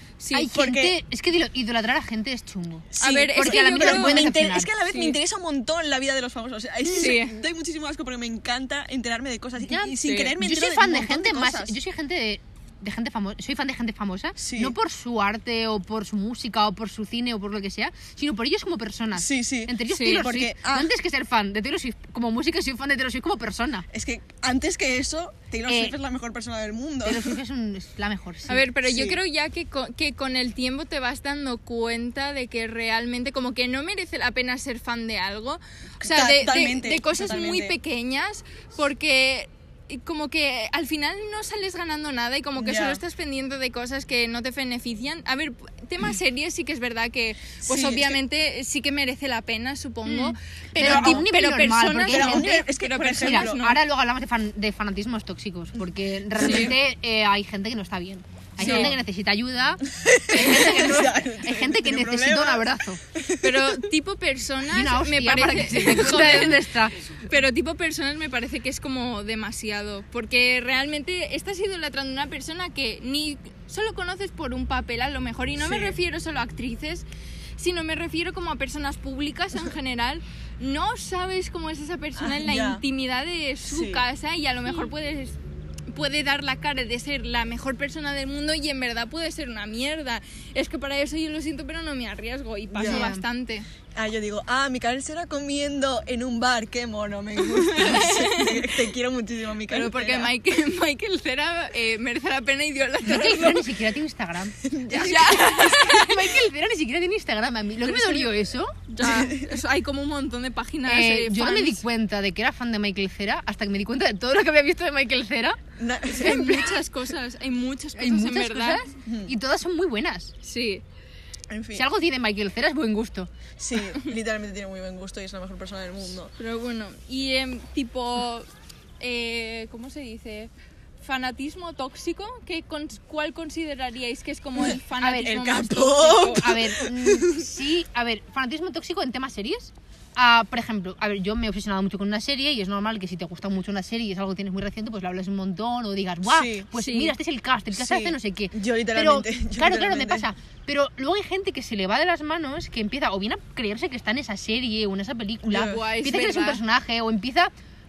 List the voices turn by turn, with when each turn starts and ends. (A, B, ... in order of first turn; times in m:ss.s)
0:00.2-0:00.5 A
0:00.3-0:04.7 B
0:00.5-0:01.0 C
0:02.9-0:11.7 C
0:03.0-0:04.3 A
0:04.9-0:05.2 A
0:06.9-0:07.4 A
0:09.7-0:23.9 B
0:10.0-0:10.4 A
0:14.4-0:14.7 C
0:19.2-0:20.9 C
0:19.9-0:20.3 A
0:23.9-0:27.4 C
0:25.7-0:26.0 B
0:27.0-0:28.7 B
0:28.5-0:53.8 A
0:28.8-0:29.2 C
0:36.0-0:37.8 C
0:42.6-0:43.0 C
0:47.7-0:48.2 C
0:50.1-1:03.0 B
0:50.8-0:51.3 C
0:52.1-0:53.6 C
0:56.4-0:56.8 C
0:56.4-0:56.7 A
0:58.6-0:58.9 A
0:58.6-0:59.0 C
0:59.9-1:03.9 C
1:03.4-1:17.0 A
1:04.7-1:07.0 B
1:15.6-1:16.0 C
1:17.6-1:25.4 A
1:22.2-1:22.8 C
1:23.7-1:24.0 C
1:25.9-1:33.7 A
1:32.7-1:33.1 C
1:32.8-1:33.2 B
1:34.0-1:40.3 C
1:37.4-1:38.7 A
1:39.7-1:43.7 A
1:43.0-1:48.7 B
1:44.6-1:45.4 C
1:44.9-1:46.3 A
1:47.9-1:48.3 A
1:48.9-1:51.8 A
1:49.0-1:49.6 C
1:50.9-1:55.6 B
1:55.8-1:56.8 C
1:56.1-1:58.9 A
1:56.2-1:56.6 B
1:58.0-2:00.3 B
1:59.1-1:59.3 C
2:00.4-2:00.8 A
2:01.5-2:01.9 C
2:01.7-2:03.3 B
2:03.6-2:06.3 C
2:06.4-2:08.5 A
2:09.0-2:10.5 A
2:11.0-2:16.5 A
2:14.6-2:17.5 C
2:15.0-2:15.5 B
2:16.2-2:37.5 B
2:26.3-2:26.7 C
2:26.7-2:27.1 A
2:27.7-2:30.3 C
2:35.5-2:35.8 C
2:35.5-2:36.6 A